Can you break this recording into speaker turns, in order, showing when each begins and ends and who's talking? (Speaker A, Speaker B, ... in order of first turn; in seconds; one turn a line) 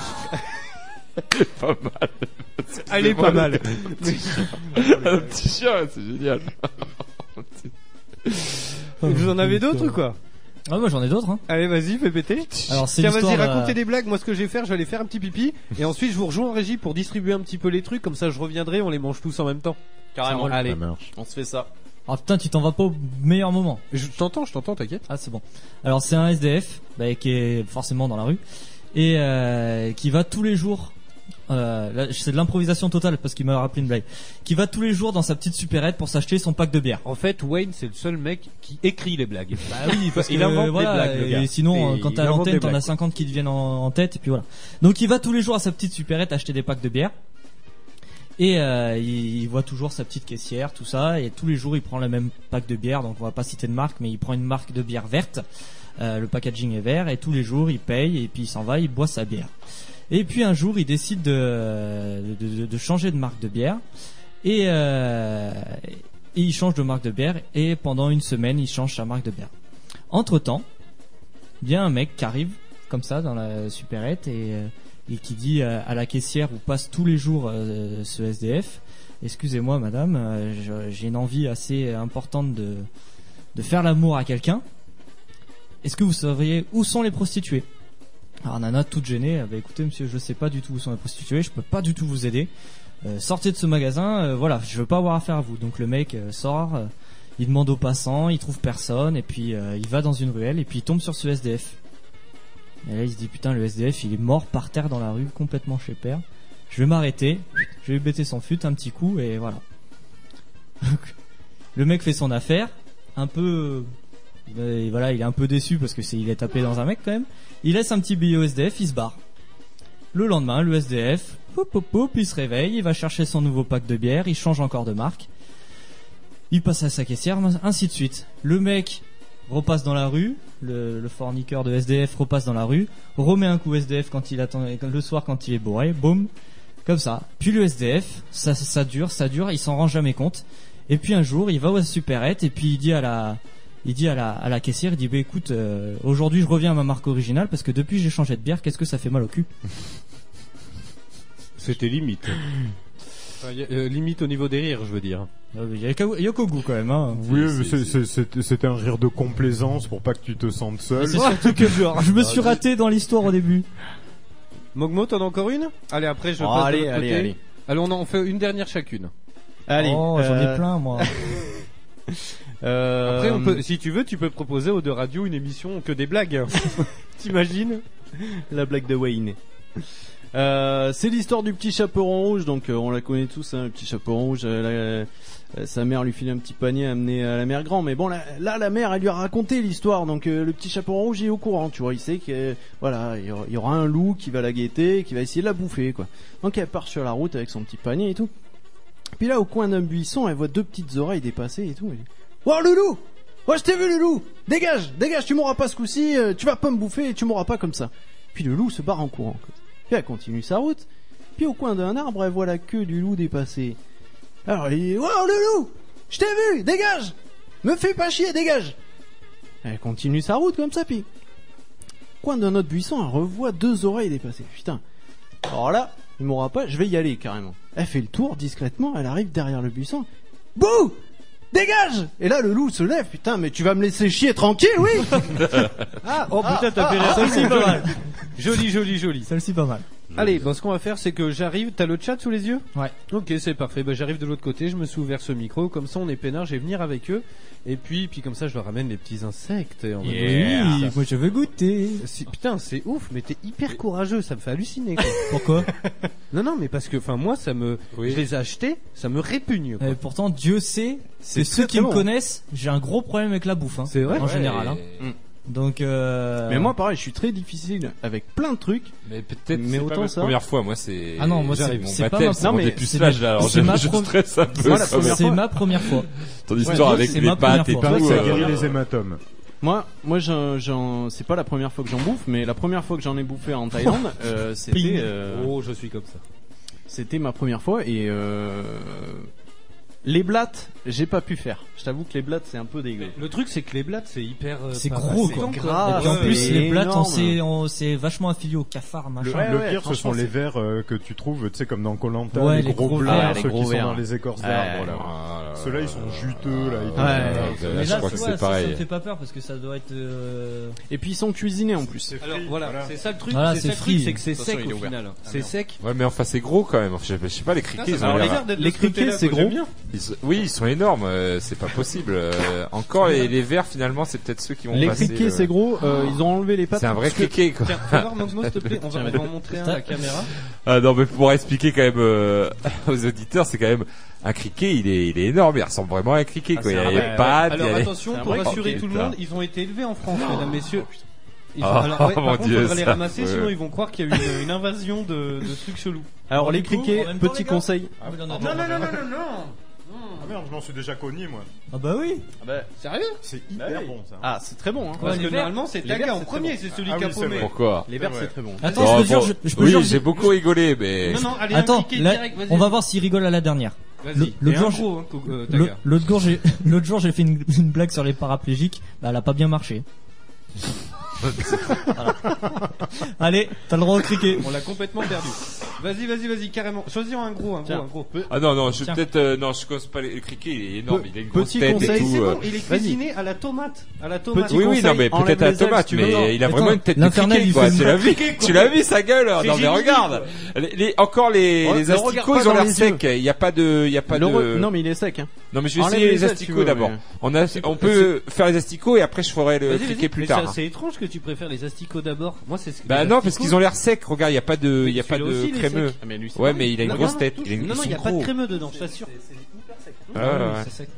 Speaker A: 1.3-7.7
Speaker B: 2.9-4.5
Speaker C: 4.8-5.3
Speaker A: 8.2-8.7
Speaker B: 9.0-10.2
Speaker D: 9.0-10.0
Speaker D: 10.7-11.4
Speaker B: 11.5-20.8
Speaker D: 12.7-13.8
Speaker C: 20.1-21.7
Speaker D: 20.3-20.5
Speaker E: 20.6-21.1
Speaker D: 22.1-23.8
Speaker B: 23.9-25.1
Speaker D: 25.1-28.4
Speaker D: 28.9-30.9
Speaker D: 31.5-37.0
Speaker B: 37.0-42.9
Speaker D: 39.7-47.1
Speaker D: 48.4-55.4
Speaker D: 56.0-59.5
Speaker D: 60.1-63.8
Speaker D: 64.4-69.5
Speaker D: 70.1-70.7
Speaker D: 71.6-82.9
Speaker D: 83.5-84.6
Speaker D: 85.8-87.7
Speaker D: 88.5-92.5
Speaker D: 93.0-101.8
Speaker D: 102.8-109.6
Speaker D: 110.8-111.1
Speaker D: 111.8-113.9
Speaker D: 114.5-119.2
Speaker D: 120.1-125.3
Speaker D: 126.5-136.3
Speaker D: 136.8-149.5
Speaker B: 151.6-152.4
Speaker B: 153.4-155.3
Speaker D: 155.5-157.4
Speaker E: 157.1-161.2
Speaker A: 157.3-158.0
Speaker D: 161.0-163.7
Speaker B: 161.1-162.4
Speaker B: 164.7-169.1
Speaker C: 166.4-167.4
Speaker C: 169.7-173.6
Speaker D: 169.8-171.1
Speaker B: 173.1-177.8
Speaker C: 178.2-179.4
Speaker C: 180.3-198.3
Speaker C: 199.2-213.8
Speaker C: 214.5-218.8
Speaker C: 219.6-221.1
Speaker C: 222.2-224.8
Speaker C: 225.5-231.0
Speaker C: 231.5-235.7
Speaker B: 236.0-239.3
Speaker C: 236.4-237.8
Speaker D: 237.0-238.0
Speaker D: 239.3-239.8
Speaker B: 240.2-250.9
Speaker E: 240.2-240.4
Speaker D: 250.0-252.1
Speaker A: 250.1-250.9
Speaker B: 252.0-255.2
Speaker D: 255.3-255.7
Speaker B: 256.3-260.0
Speaker A: 257.9-258.2
Speaker D: 259.8-264.8
Speaker C: 261.2-262.1
Speaker B: 263.9-264.3
Speaker A: 264.1-265.1
Speaker D: 265.5-266.8
Speaker C: 266.5-268.9
Speaker A: 269.1-275.2
Speaker C: 269.5-270.4
Speaker D: 271.2-276.1
Speaker C: 272.4-272.8
Speaker C: 274.6-275.4
Speaker A: 276.5-278.7
Speaker C: 276.6-277.2
Speaker D: 276.6-278.2
Speaker E: 277.8-279.2
Speaker C: 277.9-278.6
Speaker C: 279.6-285.5
Speaker B: 284.8-286.2
Speaker C: 286.9-289.3
Speaker C: 290.1-293.2
Speaker B: 293.0-296.7
Speaker D: 294.7-299.6
Speaker C: 295.2-297.4
Speaker E: 299.2-308.3
Speaker C: 299.2-300.3
Speaker D: 302.3-303.5
Speaker C: 303.0-305.0
Speaker A: 304.9-308.8
Speaker C: 307.0-307.6
Speaker D: 307.4-310.8
Speaker C: 310.9-312.1
Speaker E: 312.0-313.0
Speaker B: 312.2-315.8
Speaker D: 313.3-314.2
Speaker C: 314.4-315.5
Speaker A: 315.8-318.5
Speaker B: 317.8-319.7
Speaker C: 318.0-319.6
Speaker A: 319.9-326.1
Speaker C: 324.7-327.3
Speaker A: 326.7-328.8
Speaker B: 327.6-330.3
Speaker D: 329.5-329.9
Speaker A: 330.7-339.2
Speaker C: 336.6-337.4
Speaker B: 336.8-340.9
Speaker C: 338.1-338.9
Speaker B: 341.6-346.1
Speaker A: 341.6-343.6
Speaker C: 346.3-347.9
Speaker D: 346.3-349.0
Speaker E: 348.0-348.4
Speaker B: 348.3-350.4
Speaker E: 350.2-351.5
Speaker D: 351.7-352.3
Speaker C: 352.4-352.7
Speaker B: 352.8-353.2
Speaker E: 353.2-354.3
Speaker C: 353.5-355.3
Speaker B: 355.0-358.3
Speaker D: 355.0-355.6
Speaker C: 355.8-356.6
Speaker E: 356.8-357.5
Speaker A: 357.4-357.9
Speaker C: 357.9-359.0
Speaker D: 358.6-360.1
Speaker A: 358.7-361.4
Speaker B: 361.0-362.8
Speaker D: 361.5-369.9
Speaker B: 364.0-365.8
Speaker A: 371.3-371.6
Speaker D: 371.7-374.5
Speaker B: 374.4-378.3
Speaker C: 377.6-378.3
Speaker A: 378.3-382.4
Speaker C: 380.9-383.0
Speaker B: 381.7-384.9
Speaker C: 384.3-386.5
Speaker A: 384.5-394.7
Speaker D: 386.4-388.4
Speaker B: 388.1-388.7
Speaker B: 389.4-390.3
Speaker C: 391.6-393.0
Speaker C: 394.1-397.0
Speaker A: 395.5-400.6
Speaker B: 399.7-403.6
Speaker A: 402.9-408.3
Speaker B: 404.8-406.0
Speaker C: 406.0-410.2
Speaker B: 406.6-409.1
Speaker A: 410.1-410.7
Speaker D: 410.2-410.9